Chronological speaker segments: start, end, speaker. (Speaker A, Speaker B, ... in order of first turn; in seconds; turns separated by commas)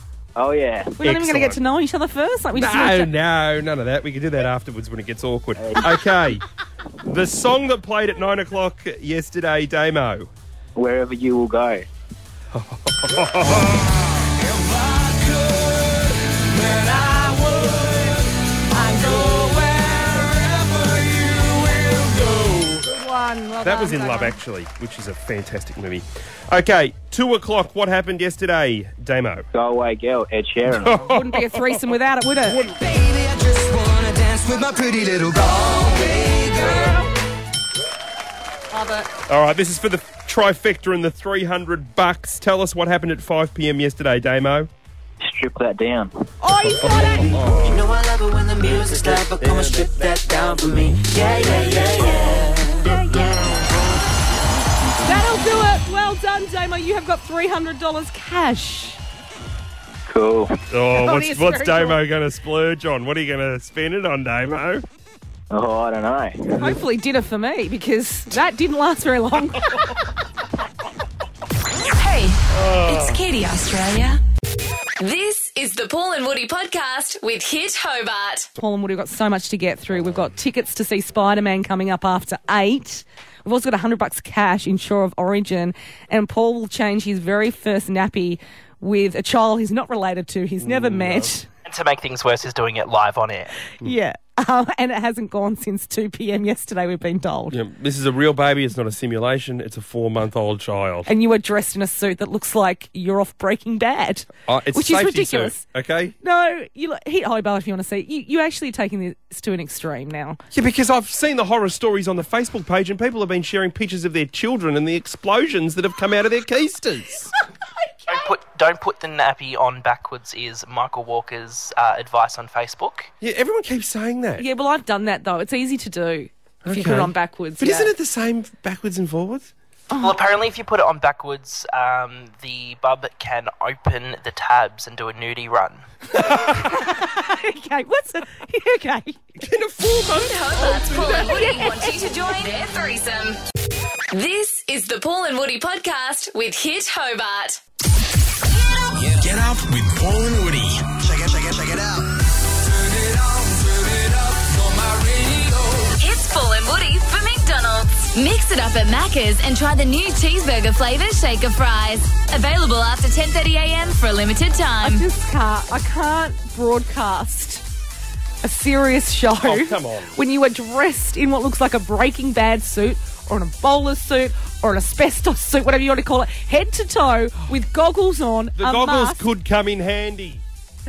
Speaker A: 0.4-1.0, Speaker B: 1.0-3.1, Speaker C: 1.0-1.6, Speaker C: 2.5-6.4, Speaker A: 5.6-6.0, Speaker C: 7.1-10.3, Speaker A: 10.8-11.8, Speaker C: 12.5-13.9, Speaker D: 14.4-22.8, Speaker B: 18.8-19.1, Speaker B: 22.9-24.4, Speaker C: 23.6-29.5, Speaker A: 29.5-30.9, Speaker C: 30.8-31.8, Speaker B: 30.9-32.6, Speaker E: 32.8-37.0, Speaker B: 36.6-37.1, Speaker B: 38.7-39.1, Speaker C: 39.3-44.7, Speaker A: 45.2-46.1, Speaker B: 46.4-47.4, Speaker C: 46.9-47.9, Speaker E: 47.6-52.8, Speaker B: 52.8-53.3, Speaker B: 55.0-59.0, Speaker A: 60.1-60.5, Speaker C: 60.7-64.8, Speaker B: 60.9-62.0, Speaker A: 65.5-66.5, Speaker B: 66.5-69.7, Speaker C: 72.5-73.2, Speaker F: 75.0-78.5, Speaker B: 78.6-91.5, Speaker C: 90.6-91.3, Speaker G: 91.7-93.5, Speaker B: 93.8-97.5, Speaker C: 97.5-101.1, Speaker B: 101.1-105.6, Speaker C: 104.5-106.1, Speaker B: 106.2-110.4, Speaker C: 110.5-117.3, Speaker B: 118.0-118.3, Speaker G: 118.1-123.1, Speaker C: 123.2-124.5, Speaker B: 124.4-127.9, Speaker C: 126.7-129.5, Speaker B: 129.9-130.2, Speaker G: 130.0-135.9, Speaker C: 136.2-136.6, Speaker B: 136.4-139.3, Speaker C: 139.4-141.3, Speaker F: 140.2-143.4, Speaker B: 140.8-142.2, Speaker F: 144.1-147.6, Speaker D: 148.9-151.6, Speaker D: 152.5-156.0, Speaker F: 156.0-165.0, Speaker B: 164.8-167.6, Speaker B: 168.4-179.2, Speaker C: 169.4-170.2, Speaker C: 178.6-180.4